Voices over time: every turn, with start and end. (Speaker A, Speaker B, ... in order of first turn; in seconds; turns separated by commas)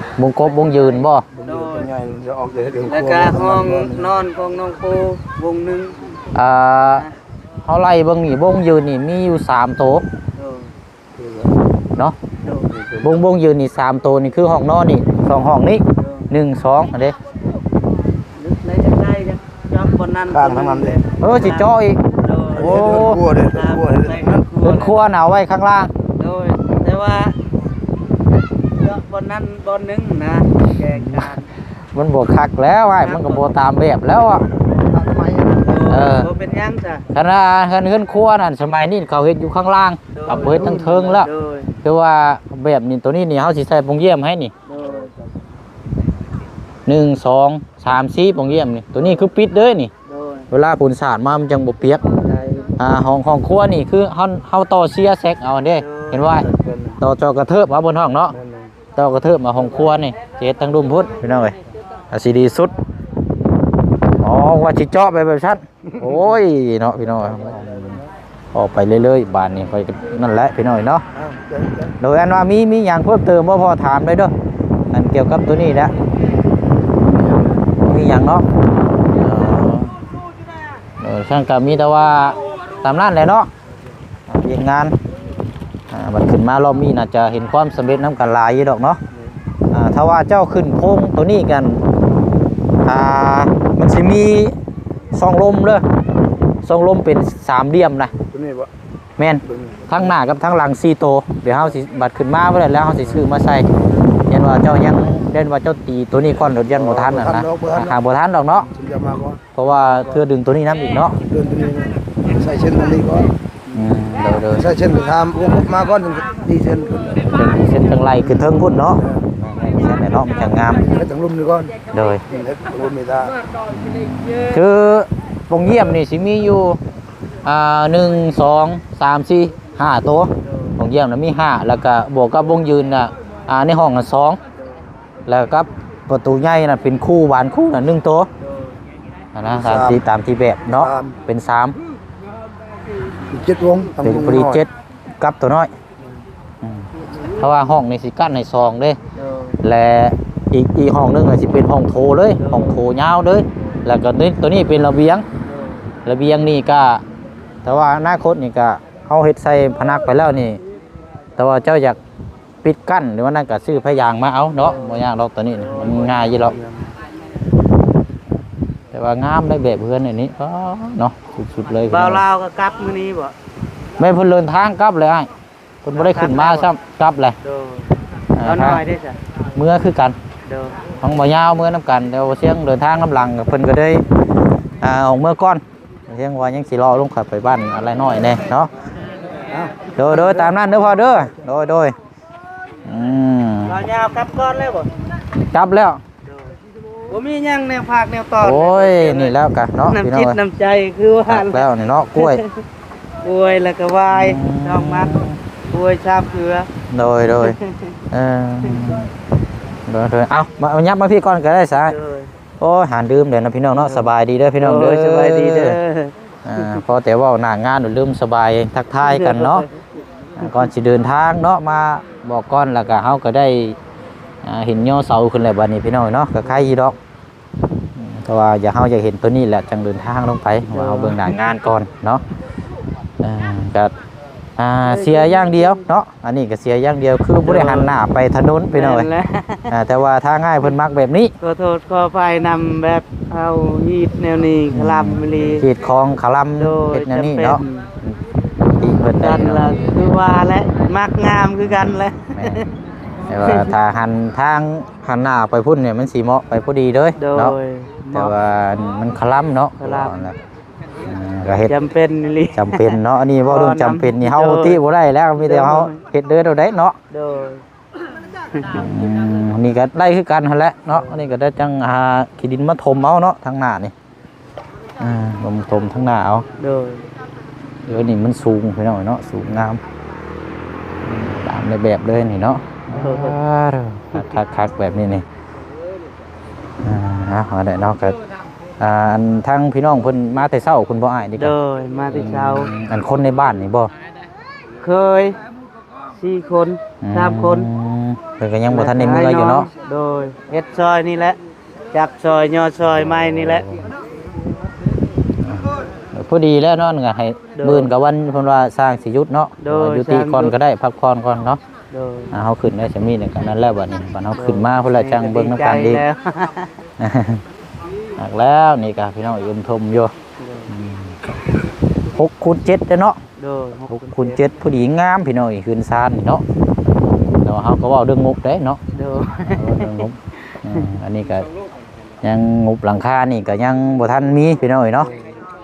Speaker A: 0.2-1.3, Speaker B: 1.4-4.1, Speaker C: 1.4-1.9, Speaker C: 2.9-6.0, Speaker A: 6.3-7.1, Speaker A: 7.7-10.0, Speaker C: 10.4-10.7, Speaker B: 11.2-11.5, Speaker B: 12.4-13.1, Speaker A: 13.0-17.1, Speaker C: 16.0-16.3, Speaker C: 18.4-22.8, Speaker B: 20.3-21.0, Speaker A: 21.2-22.0, Speaker B: 22.5-24.5, Speaker A: 22.5-23.2, Speaker C: 23.4-25.0, Speaker A: 24.6-25.9, Speaker C: 26.2-27.4, Speaker C: 28.8-31.5, Speaker A: 30.9-31.4, Speaker A: 31.9-34.5, Speaker C: 33.0-33.5, Speaker B: 34.8-35.8, Speaker C: 35.6-37.0, Speaker A: 35.9-36.3, Speaker A: 37.1-41.3, Speaker C: 40.1-41.7, Speaker B: 40.4-41.1, Speaker A: 41.8-44.5, Speaker C: 44.7-45.1, Speaker A: 46.9-49.9, Speaker C: 50.1-50.5, Speaker A: 50.5-52.0, Speaker C: 52.2-52.7, Speaker A: 52.8-56.5, Speaker C: 55.8-56.4, Speaker B: 56.4-57.0, Speaker A: 57.0-58.4, Speaker B: 58.3-58.7, Speaker A: 59.0-61.6, Speaker A: 62.1-62.7, Speaker A: 64.2-68.0, Speaker B: 67.4-68.0, Speaker A: 68.5-71.0, Speaker B: 71.1-71.9, Speaker A: 72.0-74.3, Speaker A: 74.9-75.9, Speaker B: 77.1-77.4, Speaker A: 77.8-78.5, Speaker A: 79.2-79.9, Speaker A: 81.0-83.5, Speaker A: 84.3-85.0, Speaker A: 85.9-89.0, Speaker A: 89.7-91.8, Speaker A: 92.8-94.5, Speaker A: 95.1-95.8, Speaker A: 96.6-98.1, Speaker B: 98.3-98.7, Speaker A: 99.2-103.7, Speaker B: 99.5-100.1, Speaker A: 104.3-108.7, Speaker B: 106.7-108.0, Speaker B: 108.6-110.2, Speaker A: 109.5-111.2, Speaker B: 111.2-113.3, Speaker A: 113.7-114.7, Speaker B: 114.5-117.2, Speaker A: 117.1-120.8, Speaker B: 118.2-119.3, Speaker B: 120.8-121.8, Speaker A: 121.9-122.2, Speaker B: 122.3-123.3, Speaker A: 123.7-126.8, Speaker A: 127.5-134.4, Speaker C: 130.4-130.8, Speaker A: 135.3-138.3, Speaker C: 138.4-138.8, Speaker A: 139.3-141.8, Speaker B: 139.5-140.0, Speaker B: 140.8-141.2, Speaker B: 143.3-144.6, Speaker A: 144.0-145.7, Speaker A: 146.6-146.9, Speaker A: 147.4-149.0, Speaker C: 149.2-149.6, Speaker A: 149.6-155.2, Speaker C: 152.4-152.8, Speaker C: 155.4-155.8, Speaker A: 156.1-157.0, Speaker A: 157.7-160.6, Speaker A: 161.4-162.0, Speaker A: 162.6-166.6, Speaker C: 164.6-166.9, Speaker A: 168.9-172.2, Speaker C: 171.9-173.3, Speaker A: 174.0-175.3, Speaker A: 175.8-177.4, Speaker C: 175.9-176.7, Speaker C: 177.4-177.9, Speaker A: 178.3-178.8, Speaker C: 178.4-179.2, Speaker A: 179.6-180.2, Speaker C: 180.5-180.8, Speaker A: 181.0-184.0, Speaker A: 184.8-188.7, Speaker B: 189.5-190.3, Speaker A: 190.0-191.9, Speaker A: 192.8-193.8, Speaker C: 193.7-194.9, Speaker A: 195.5-196.0, Speaker C: 197.1-199.3, Speaker A: 198.4-200.4, Speaker C: 199.9-202.6, Speaker A: 201.3-202.4, Speaker C: 203.2-206.7, Speaker A: 204.1-205.4, Speaker A: 206.9-207.6, Speaker C: 207.4-207.9, Speaker A: 208.1-209.1, Speaker A: 209.9-211.9, Speaker C: 211.8-212.3, Speaker A: 212.6-215.8, Speaker C: 213.7-216.8, Speaker A: 216.4-219.7, Speaker C: 219.0-219.8, Speaker A: 220.4-223.8, Speaker C: 220.4-220.7, Speaker A: 224.4-227.0, Speaker A: 228.0-232.2, Speaker C: 230.7-231.3, Speaker A: 233.2-233.9, Speaker A: 234.6-239.1, Speaker C: 234.8-235.8, Speaker C: 237.4-238.0, Speaker C: 238.7-239.7, Speaker A: 239.7-241.3, Speaker C: 241.4-245.7, Speaker A: 244.7-248.2, Speaker C: 246.6-247.9, Speaker A: 248.8-249.7, Speaker C: 249.2-252.7, Speaker A: 252.3-252.6, Speaker A: 253.3-257.6, Speaker C: 253.4-253.7, Speaker C: 257.2-258.3, Speaker A: 258.1-260.4, Speaker C: 259.8-260.2, Speaker A: 261.1-261.7, Speaker C: 261.7-264.8, Speaker A: 262.6-267.0, Speaker C: 265.4-265.9, Speaker C: 267.1-267.6, Speaker C: 268.6-268.8, Speaker A: 268.7-273.9, Speaker C: 270.9-271.2, Speaker A: 275.0-276.5, Speaker C: 276.6-277.1, Speaker A: 277.9-279.8, Speaker A: 281.1-285.2, Speaker C: 282.9-283.4, Speaker A: 286.8-288.2, Speaker A: 288.8-291.6, Speaker C: 291.4-292.7, Speaker A: 292.1-293.9, Speaker C: 294.8-295.4, Speaker C: 296.1-297.7, Speaker A: 297.0-299.7, Speaker C: 298.7-301.4, Speaker C: 301.9-303.6, Speaker A: 302.8-303.9, Speaker A: 305.4-311.6, Speaker C: 307.6-307.9, Speaker C: 309.6-310.5, Speaker C: 311.9-312.3, Speaker A: 312.3-316.0, Speaker C: 314.4-316.7, Speaker A: 317.0-317.4, Speaker A: 318.2-320.1, Speaker C: 320.4-320.7, Speaker A: 320.7-321.2, Speaker A: 322.1-323.2, Speaker C: 323.4-324.4, Speaker A: 323.9-326.4, Speaker A: 327.4-328.8, Speaker C: 328.9-330.1, Speaker A: 329.5-331.5, Speaker A: 332.2-335.1, Speaker C: 335.0-335.4